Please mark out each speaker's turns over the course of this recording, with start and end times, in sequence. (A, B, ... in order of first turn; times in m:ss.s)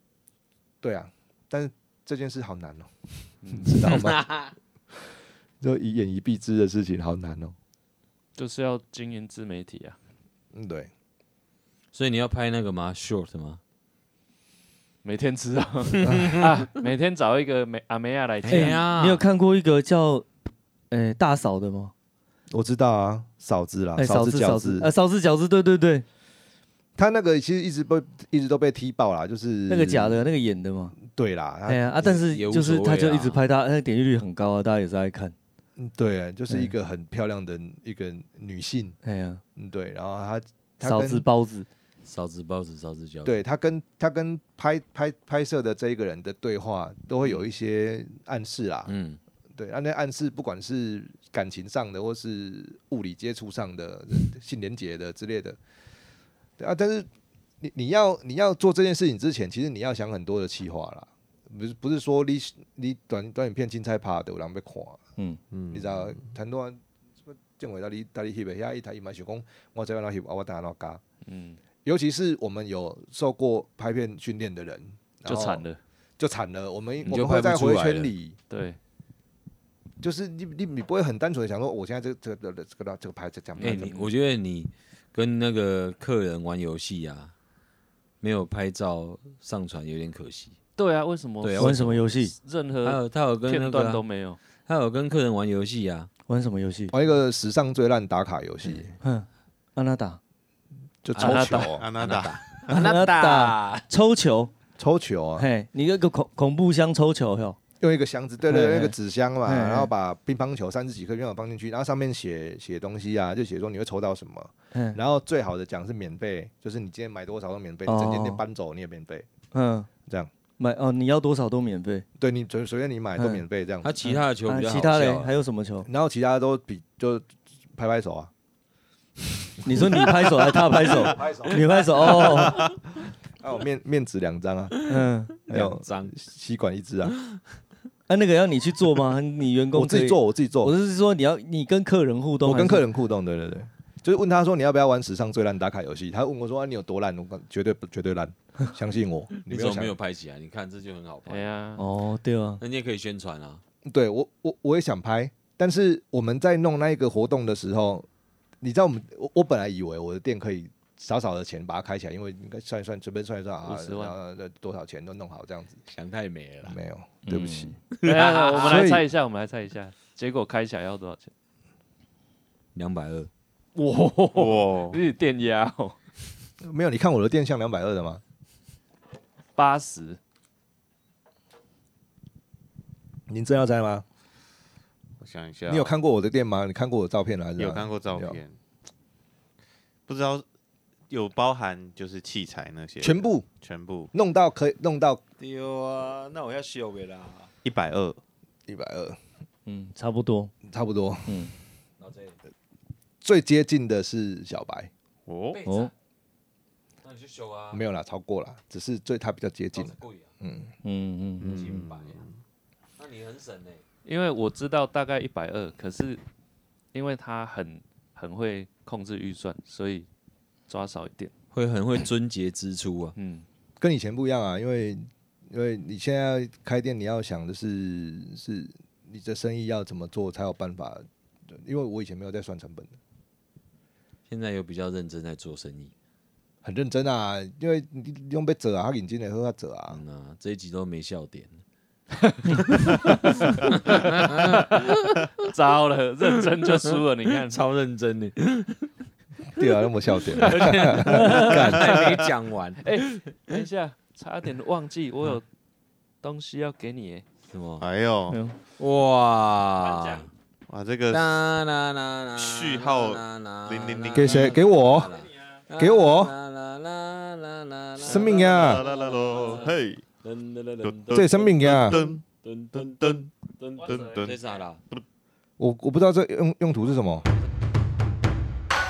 0:00.8-0:04.3 A
0:03.4-0:03.9 B
0:03.9-0:04.5 C
0:05.6-0:07.5 A
0:08.4-0:10.0 B
0:10.5-0:10.9 A
0:11.9-0:13.6 C
0:15.0-0:18.8 B
0:16.0-0:16.3 A
0:18.4-0:19.2 C
0:18.5-0:20.3 D
0:20.9-0:21.9 D
0:22.5-0:24.9 A
0:24.0-0:26.0 D
0:27.0-0:30.2 A
0:29.7-0:31.0 D
0:31.0-0:32.2 A
0:31.7-0:35.3 D
0:32.1-0:33.4 C
0:35.8-0:39.0 A
0:39.0-0:39.4 D
0:39.6-0:41.2 A
0:40.8-0:41.7 D
0:42.0-0:43.4 C
0:43.2-0:48.9 A
0:48.9-0:49.2 C
0:49.6-0:55.6 A
0:56.6-0:57.1 A
0:57.6-1:05.0 A
1:05.5-1:06.2 E
1:05.7-1:11.0 A
1:11.2-1:11.6 B
1:11.8-1:15.6 A
1:15.2-1:15.8 B
1:16.2-1:18.4 A
1:17.0-1:18.1 C
1:18.5-1:18.8 B
1:20.0-1:23.9 A
1:23.6-1:24.1 B
1:23.6-1:27.3 C
1:28.2-1:30.6 C
1:30.8-1:34.4 B
1:31.4-1:32.1 C
1:31.6-1:32.3 D
1:32.8-1:34.0 C
1:34.6-1:36.1 C
1:36.3-1:36.9 D
1:36.9-1:39.0 A
1:39.0-1:40.2 D
1:41.0-1:41.8 A
1:41.1-1:43.8 C
1:41.2-1:41.7 B
1:41.8-1:42.7 E
1:42.7-1:44.5 D
1:44.8-1:45.5 A
1:45.4-1:47.6 D
1:47.8-1:59.3 A
1:48.5-1:48.9 D
1:49.4-1:49.9 D
1:57.8-1:58.4 D
1:59.5-1:59.9 D
2:00.6-2:02.0 D
2:02.2-2:04.0 A
2:03.2-2:03.4 D
2:03.8-2:05.3 C
2:04.1-2:05.9 D
2:05.8-2:08.3 A
2:09.6-2:12.7 D
2:09.7-2:10.1 A
2:11.2-2:11.6 A
2:13.4-2:17.2 A
2:14.9-2:15.4 D
2:15.5-2:16.1 C
2:18.1-2:22.8 D
2:19.7-2:20.7 A
2:22.4-2:29.9 A
2:29.5-2:31.5 C
2:31.3-2:31.8 B
2:31.8-2:32.6 D
2:32.6-2:33.6 C
2:33.8-2:38.1 A
2:38.6-2:45.8 A
2:43.6-2:44.2 B
2:45.9-2:46.8 C
2:46.6-2:47.8 A
2:47.3-2:47.6 D
2:47.9-2:48.9 C
2:48.0-2:51.3 B
2:48.6-2:49.0 A
2:52.7-2:53.3 C
2:53.8-2:56.0 B
2:54.3-2:55.0 E
2:56.6-2:58.2 A
2:59.6-3:00.2 B
3:03.3-3:04.0 A
3:05.2-3:05.9 E
3:05.7-3:08.4 A
3:07.6-3:08.5 E
3:10.1-3:10.4 E
3:11.1-3:14.1 E
3:13.0-3:13.4 A
3:14.1-3:15.2 A
3:15.4-3:17.5 C
3:17.6-3:18.2 E
3:18.7-3:19.2 A
3:19.6-3:20.5 D
3:20.6-3:21.5 A
3:21.3-3:21.5 D
3:22.0-3:22.4 C
3:23.2-3:24.9 A
3:25.3-3:25.6 E
3:25.5-3:25.9 C
3:25.6-3:25.9 D
3:27.0-3:27.8 C
3:27.7-3:30.7 A
3:29.7-3:30.3 C
3:30.8-3:31.5 D
3:31.4-3:32.4 E
3:31.4-3:32.2 C
3:33.0-3:33.8 C
3:34.0-3:36.2 B
3:36.9-3:40.1 B
3:40.7-3:41.3 B
3:41.5-3:43.1 C
3:43.2-3:43.4 B
3:43.8-3:53.0 A
3:54.3-3:55.9 C
3:56.6-4:00.0 A
3:59.9-4:01.6 C
4:02.2-4:07.6 B
4:02.7-4:05.3 C
4:06.5-4:08.9 C
4:09.5-4:12.1 A
4:10.3-4:13.6 C
4:10.5-4:11.0 B
4:11.1-4:11.7 D
4:12.8-4:15.4 B
4:16.2-4:17.2 B
4:17.5-4:17.8 C
4:17.8-4:18.4 E
4:18.3-4:18.5 D
4:18.8-4:20.3 C
4:19.8-4:20.3 B
4:20.7-4:21.4 E
4:21.1-4:34.8 C
4:22.3-4:24.6 E
4:24.1-4:25.2 A
4:25.8-4:26.3 A
4:28.0-4:28.8 A
4:28.1-4:30.0 E
4:30.8-4:35.0 E
4:31.1-4:32.0 A
4:35.6-4:37.2 A